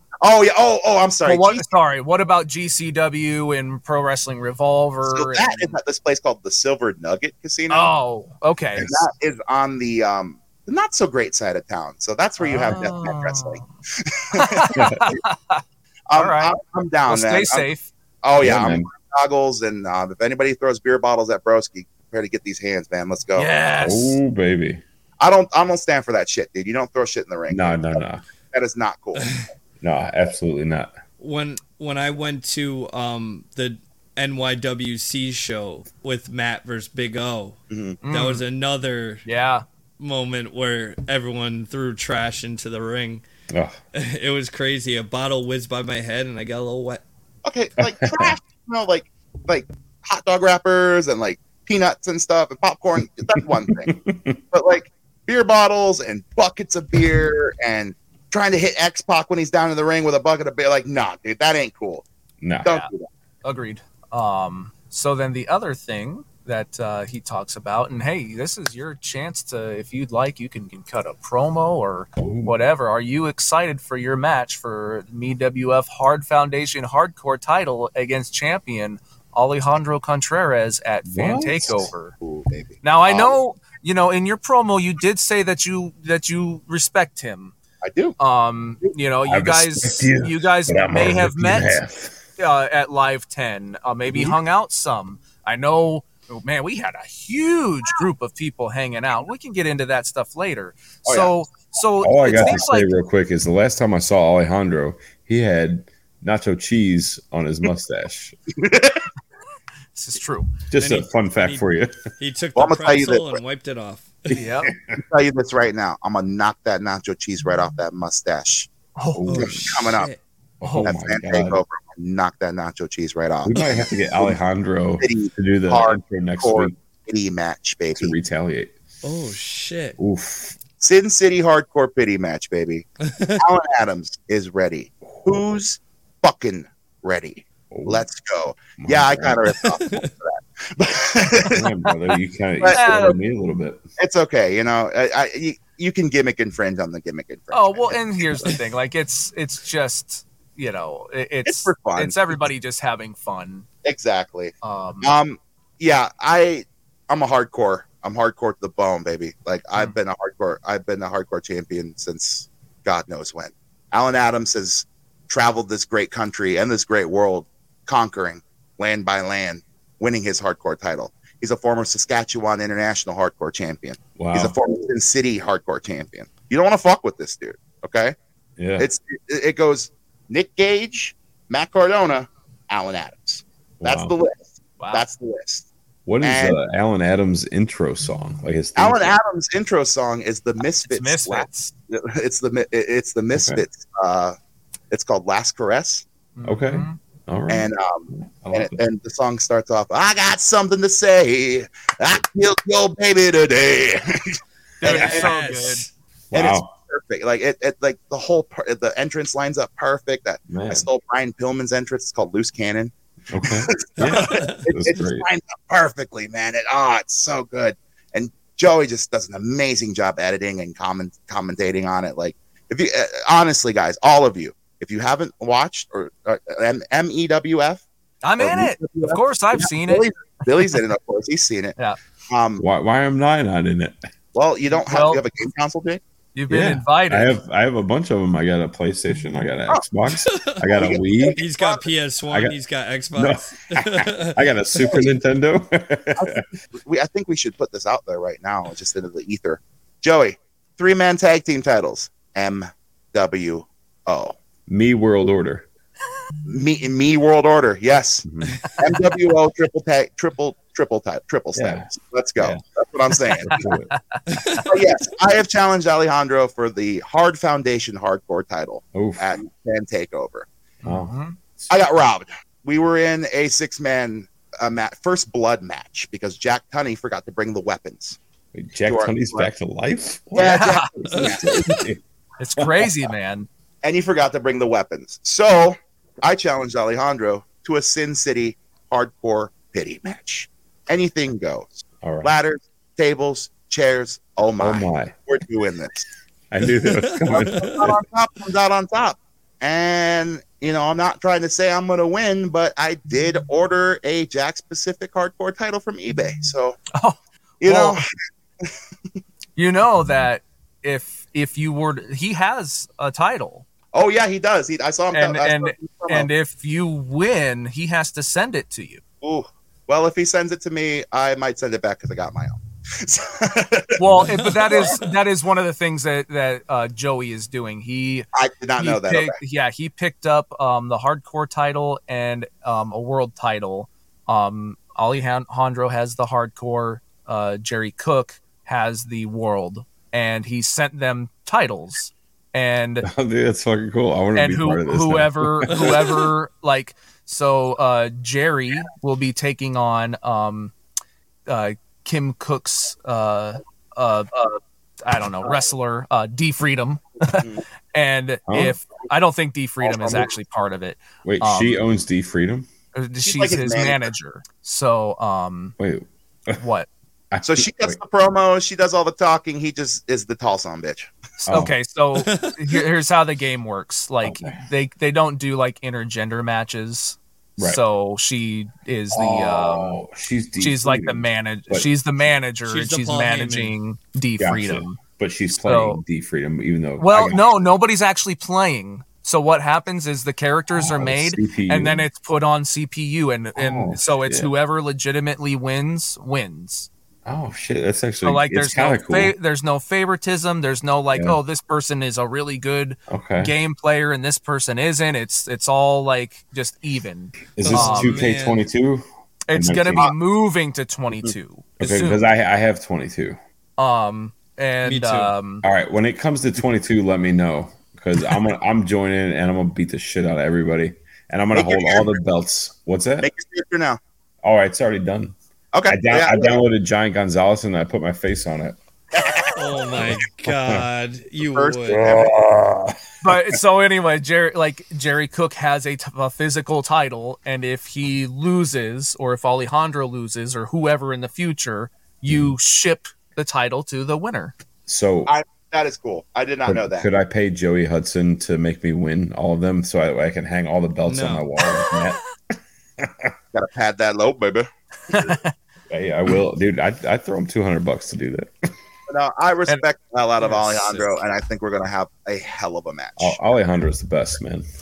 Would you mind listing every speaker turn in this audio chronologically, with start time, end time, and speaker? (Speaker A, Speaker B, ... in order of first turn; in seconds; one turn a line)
Speaker A: 0.2-1.6
Speaker B: 1.2-5.8
Speaker A: 5.0-7.9
Speaker B: 7.7-9.0
Speaker A: 8.8-15.2
Speaker B: 12.4-13.7
Speaker B: 14.3-15.6
Speaker C: 14.7-15.1
Speaker A: 16.1-17.7
Speaker B: 16.1-16.5
Speaker B: 17.1-17.9
Speaker A: 18.2-23.5
Speaker C: 18.4-18.9
Speaker B: 23.3-24.2
Speaker C: 23.8-24.8
Speaker A: 25.2-29.5
Speaker C: 27.5-28.2
Speaker D: 29.1-29.4
Speaker C: 29.8-30.9
Speaker D: 31.2-37.6
Speaker A: 37.7-38.0
Speaker B: 38.0-38.4
Speaker D: 38.1-39.2
Speaker B: 39.2-39.6
Speaker D: 40.0-43.2
Speaker C: 43.5-43.8
Speaker D: 43.9-47.0
Speaker A: 47.4-54.0
Speaker C: 47.8-48.4
Speaker C: 53.7-54.4
Speaker A: 54.5-62.0
Speaker C: 62.4-62.7
Speaker A: 62.6-63.1
Speaker B: 63.4-82.1
Speaker C: 72.2-72.5
Speaker C: 81.1-81.9
Speaker A: 82.2-83.4
Speaker B: 82.8-87.5
Speaker A: 87.8-88.2
Speaker B: 88.2-91.8
Speaker C: 89.2-92.2
Speaker B: 92.4-103.0
Speaker A: 101.0-101.3
Speaker C: 102.0-108.3
Speaker A: 102.2-102.6
Speaker A: 108.6-109.0
Speaker B: 109.9-110.5
Speaker C: 110.7-112.1
Speaker D: 110.8-114.3
Speaker A: 112.5-113.4
Speaker C: 114.3-115.0
Speaker B: 114.3-114.7
Speaker A: 114.9-118.7
Speaker B: 119.0-119.3
Speaker C: 119.1-120.0
Speaker D: 119.3-120.2
Speaker A: 119.3-120.1
Speaker C: 120.6-121.6
Speaker B: 120.6-120.9
Speaker A: 120.8-124.3
Speaker C: 123.4-126.7
Speaker A: 125.0-128.1
Speaker C: 127.9-128.7
Speaker D: 129.0-130.0
Speaker C: 130.0-130.6
Speaker A: 130.8-132.9
Speaker D: 133.1-133.4
Speaker A: 133.4-141.6
Speaker C: 135.1-135.4
Speaker C: 137.7-138.0
Speaker C: 138.8-139.5
Speaker D: 139.7-140.1
Speaker C: 141.5-143.8
Speaker B: 142.7-143.2
Speaker A: 144.0-148.5
Speaker B: 147.5-153.7
Speaker A: 151.4-152.1
Speaker A: 153.8-178.1
Speaker B: 154.6-155.1
Speaker C: 174.2-174.6
Speaker C: 178.6-178.8
Speaker A: 178.8-185.7
Speaker C: 183.8-184.1
Speaker B: 184.8-185.1
Speaker C: 186.1-189.2
Speaker A: 186.2-186.6
Speaker A: 188.8-194.3
Speaker B: 190.6-191.7
Speaker C: 193.3-193.6
Speaker A: 194.9-196.0
Speaker B: 196.3-197.0
Speaker C: 196.4-198.8
Speaker A: 197.5-205.3
Speaker B: 204.8-205.8
Speaker D: 204.8-205.9
Speaker C: 206.3-206.7
Speaker A: 206.3-212.9
Speaker C: 210.5-210.9
Speaker C: 213.3-215.2
Speaker A: 213.5-227.8
Speaker D: 214.0-214.6
Speaker B: 228.2-230.1
Speaker A: 228.4-231.8
Speaker A: 232.3-232.6
Speaker C: 232.6-234.0
Speaker A: 234.3-236.0
Speaker B: 234.9-235.2
Speaker B: 236.3-237.4
Speaker C: 236.5-241.4
Speaker D: 240.2-240.7
Speaker A: 240.7-241.8
Speaker D: 241.3-244.3
Speaker C: 242.3-242.5
Speaker C: 243.1-246.4
Speaker A: 244.8-245.1
Speaker A: 246.2-254.3
Speaker C: 254.7-255.7
Speaker A: 256.5-258.2
Speaker C: 258.2-258.6
Speaker A: 258.8-263.7
Speaker C: 261.5-262.6
Speaker C: 263.4-263.9
Speaker B: 263.9-264.6
Speaker D: 264.3-264.6
Speaker A: 264.6-270.5
Speaker C: 268.9-269.4
Speaker B: 270.8-271.4
Speaker C: 270.8-271.7
Speaker A: 271.7-278.2
Speaker C: 278.5-282.0
Speaker A: 278.9-279.5
Speaker A: 280.3-281.7
Speaker B: 280.4-280.9
Speaker D: 281.1-281.8
Speaker B: 282.4-283.5
Speaker C: 282.6-282.9
Speaker A: 283.8-296.1
Speaker C: 292.0-292.4
Speaker C: 294.6-295.1
Speaker C: 296.5-298.0
Speaker D: 296.8-297.8
Speaker A: 297.3-306.8
Speaker B: 306.9-308.0
Speaker A: 307.6-308.1
Speaker B: 309.6-313.6
Speaker A: 313.9-316.3
Speaker B: 315.1-319.0
Speaker A: 319.2-324.3
Speaker B: 324.0-328.3
Speaker D: 324.4-325.0
Speaker A: 328.4-329.4
Speaker B: 328.8-343.1
Speaker C: 343.0-346.0
Speaker B: 344.3-350.7
Speaker D: 345.7-346.0
Speaker B: 351.5-361.8
Speaker A: 357.4-357.6
Speaker C: 358.5-358.8
Speaker A: 359.8-360.3
Speaker C: 361.2-362.7
Speaker B: 362.9-365.8
Speaker A: 363.2-364.1
Speaker C: 365.8-366.6
Speaker B: 366.6-366.9
Speaker C: 367.3-368.0
Speaker A: 367.4-371.1
Speaker B: 371.4-379.9
Speaker C: 371.4-371.7
Speaker D: 372.2-372.6
Speaker C: 374.2-374.6
Speaker C: 379.1-381.9
Speaker B: 380.6-385.0
Speaker D: 382.7-383.8
Speaker C: 384.4-387.5
Speaker B: 385.6-386.0
Speaker B: 387.0-396.9
Speaker C: 390.7-392.0
Speaker C: 393.6-394.5
Speaker C: 397.2-399.3
Speaker B: 398.2-408.2
Speaker C: 401.1-401.4
Speaker C: 403.1-403.5
Speaker C: 407.5-410.1
Speaker D: 407.6-408.6
Speaker B: 409.5-412.2
Speaker C: 411.8-413.4
Speaker B: 413.8-415.6
Speaker D: 414.8-415.3
Speaker C: 415.6-423.3
Speaker A: 421.5-422.2
Speaker A: 423.2-424.0
Speaker C: 424.4-425.4
Speaker A: 425.7-426.6
Speaker C: 425.9-428.8
Speaker A: 429.1-430.0
Speaker D: 429.5-432.0
Speaker C: 429.9-430.8
Speaker A: 431.4-432.4
Speaker C: 431.9-433.6
Speaker B: 433.2-444.5
Speaker C: 444.9-445.3
Speaker A: 445.2-447.1
Speaker C: 446.6-452.2
Speaker D: 451.1-451.4
Speaker C: 453.0-453.3
Speaker A: 453.5-455.3
Speaker B: 455.1-455.5
Speaker C: 455.9-458.5
Speaker A: 459.1-463.4
Speaker D: 460.4-461.1
Speaker C: 463.2-464.6